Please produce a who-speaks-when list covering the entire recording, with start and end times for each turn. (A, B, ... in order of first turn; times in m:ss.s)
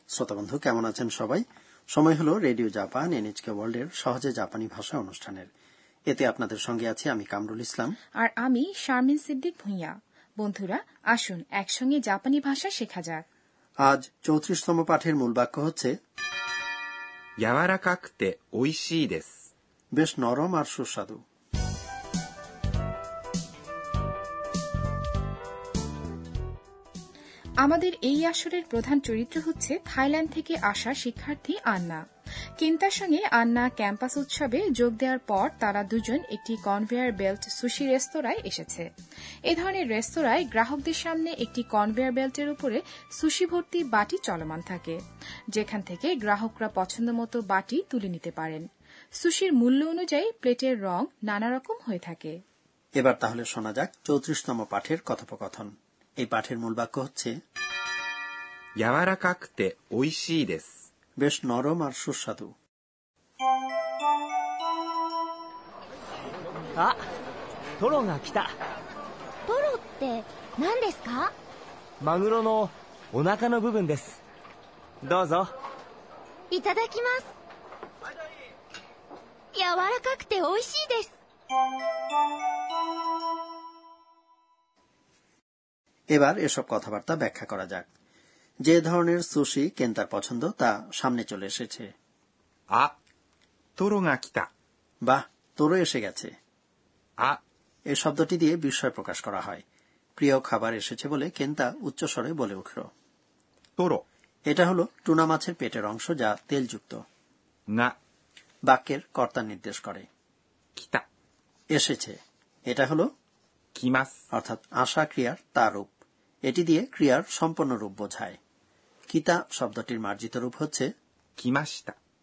0:00.1-0:01.4 A
0:01.9-0:05.5 A
0:06.1-0:07.9 A
0:08.2-0:13.2 B
0:13.9-0:15.9 A
0:17.4-0:19.3 C
0:20.0-0:21.2 A
0:27.6-0:32.0 B
0:32.6-0:38.9 B
0:39.5-0:45.0 B
0:45.5-0:48.6 B
0:49.2-0:52.3 B
0:53.0-0:55.7 A
0:56.2-0:57.3 A
0:58.8-1:00.7 C
1:01.2-1:02.5 A
1:07.8-1:08.5 D
1:09.5-1:10.5 D
1:09.5-1:11.3 E
1:12.0-1:14.2 D
1:15.0-1:15.5 D
1:16.5-1:17.3 E
1:19.5-1:21.1 E
1:26.1-1:27.8 A
1:28.7-1:31.9 A
1:33.8-1:34.5 C
1:35.0-1:36.3 A
1:37.9-1:39.6 A
1:40.2-1:42.9 A
1:43.8-1:44.0 C
1:44.5-1:47.0 A
1:48.7-1:50.0 A
1:50.8-1:51.0 C
1:51.7-1:52.1 A
1:52.7-1:53.1 A
1:53.8-1:54.1 C
1:54.3-1:55.9 A
1:56.5-1:58.4 A
1:59.1-2:00.9 A
2:01.4-2:02.0 C